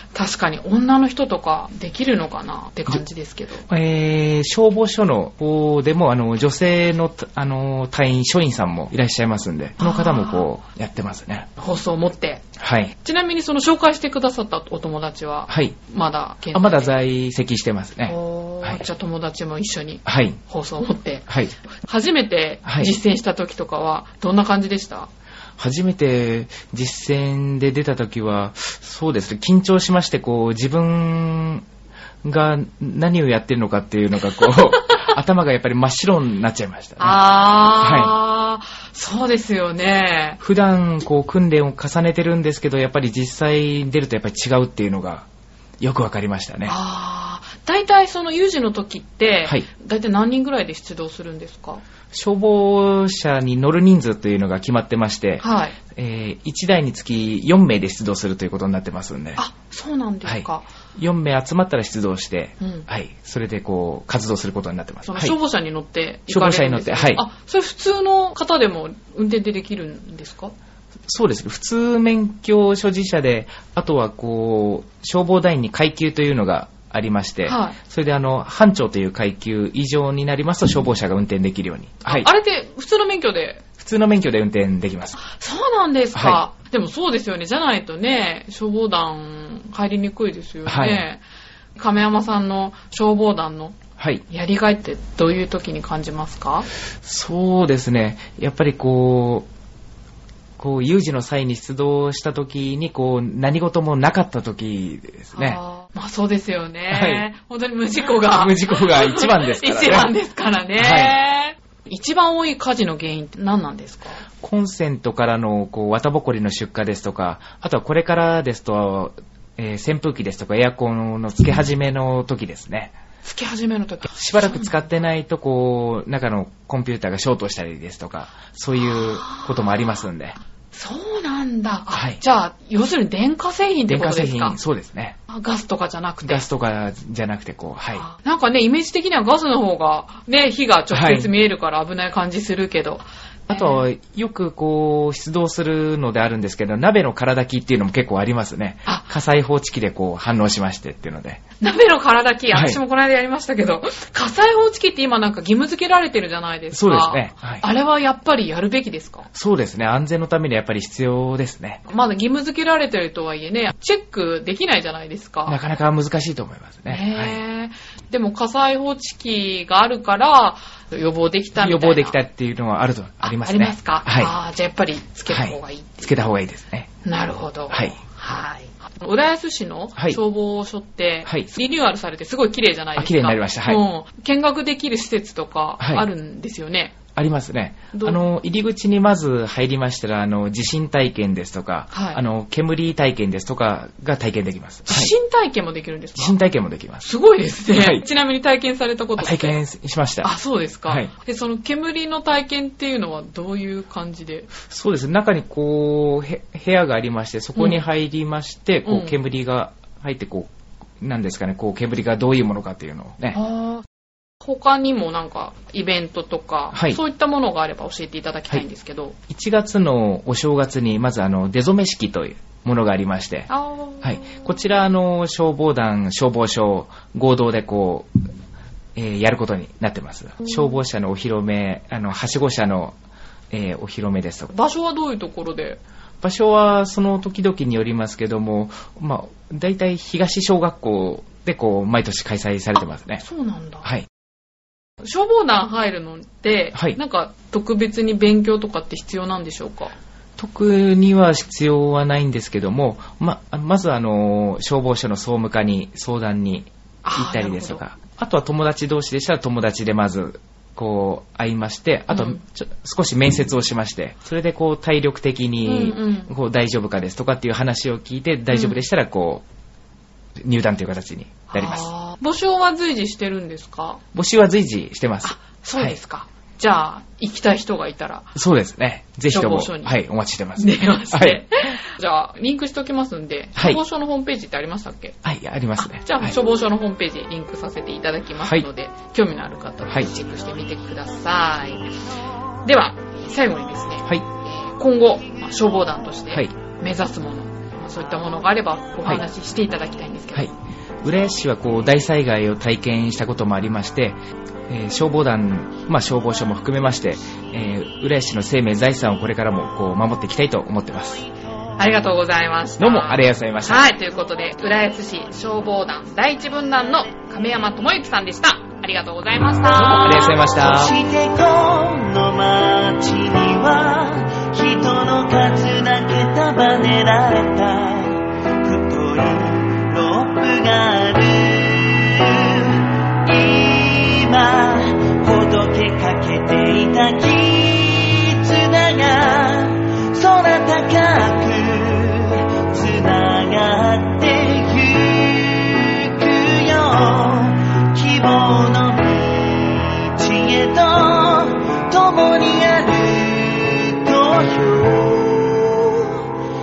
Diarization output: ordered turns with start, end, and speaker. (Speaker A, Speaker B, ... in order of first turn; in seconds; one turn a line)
Speaker A: 0.1-3.6
Speaker B: 3.7-11.5
Speaker A: 9.8-10.5
Speaker A: 11.6-12.4
Speaker B: 12.6-12.9
Speaker A: 13.0-17.0
Speaker B: 15.5-15.8
Speaker B: 16.5-18.8
Speaker A: 18.1-25.1
Speaker B: 20.1-20.4
Speaker B: 22.6-22.9
Speaker B: 25.6-31.6
Speaker B: 32.2-37.2
Speaker A: 37.0-40.4
Speaker B: 37.7-38.1
Speaker B: 40.4-45.3
Speaker B: 45.8-46.8
Speaker A: 46.6-51.8
Speaker B: 52.1-59.4
Speaker A: 55.4-55.8
Speaker A: 59.4-60.7
Speaker B: 60.2-65.3
Speaker A: 62.6-62.9
Speaker A: 65.0-70.5
Speaker B: 66.3-67.2
Speaker B: 71.1-82.3
Speaker A: 77.4-77.8
Speaker A: 82.0-83.7
Speaker B: 83.8-85.2
Speaker A: 85.2-91.2
Speaker B: 86.1-86.4
Speaker B: 90.7-91.0
Speaker A: 91.8-93.8
Speaker B: 94.0-94.2
Speaker A: 94.3-96.7
Speaker B: 97.0-99.5
Speaker B: 100.6-105.6
Speaker A: 105.3-114.2
Speaker B: 106.9-107.3
Speaker B: 108.2-110.1
Speaker B: 110.8-111.2
Speaker B: 114.4-122.9
Speaker A: 123.2-124.8
Speaker B: 124.1-130.4
Speaker A: 128.7-130.0
Speaker A: 130.7-134.6
Speaker B: 131.9-132.2
Speaker B: 133.9-135.2
Speaker A: 135.3-136.4
Speaker B: 136.2-138.1
Speaker A: 138.0-143.8
Speaker B: 140.9-141.3
Speaker B: 143.5-151.4
Speaker A: 151.6-159.3
Speaker B: 152.5-152.8
Speaker B: 156.7-157.6
Speaker B: 159.3-161.8
Speaker A: 161.9-165.6
Speaker B: 165.5-167.4
Speaker A: 166.9-172.2
Speaker B: 171.6-174.3
Speaker A: 173.2-176.1
Speaker B: 175.3-176.9
Speaker A: 177.0-186.9
Speaker B: 177.7-177.9
Speaker B: 182.9-183.8
Speaker B: 185.8-186.1
Speaker B: 187.1-195.1
Speaker A: 187.9-188.2
Speaker A: 191.9-192.2
Speaker A: 194.9-196.4
Speaker B: 196.2-197.1
Speaker A: 197.0-199.6
Speaker B: 197.7-198.0
Speaker B: 199.2-200.3
Speaker A: 200.2-204.5
Speaker B: 204.6-210.5
Speaker A: 207.6-207.8
Speaker A: 208.8-209.2
Speaker B: 211.0-213.4
Speaker A: 213.3-213.8
Speaker A: 214.4-219.1
Speaker B: 216.7-217.0
Speaker B: 219.3-223.5
Speaker A: 223.5-224.5
Speaker B: 224.0-228.1
Speaker B: 228.9-232.9
Speaker B: 233.5-234.5
Speaker A: 234.5-235.8
Speaker B: 236.2-243.2
Speaker A: 243.2-243.9
Speaker A: 245.0-249.9
Speaker B: 250.4-269.4
Speaker A: 257.0-257.8
Speaker A: 262.1-262.4
Speaker A: 265.6-266.3
Speaker A: 268.5-268.8
Speaker B: 270.4-271.9
Speaker A: 271.5-274.0
Speaker B: 274.1-276.0
Speaker A: 275.2-278.3
Speaker B: 278.3-281.7
Speaker A: 279.3-280.0
Speaker A: 280.6-285.2
Speaker B: 283.6-283.8
Speaker B: 285.2-286.4
Speaker A: 285.8-291.9
Speaker A: 292.6-300.5
Speaker B: 300.3-304.2
Speaker B: 304.7-311.3
Speaker A: 311.8-320.4
Speaker B: 312.8-313.8
Speaker B: 319.7-321.0
Speaker C: 320.5-356.2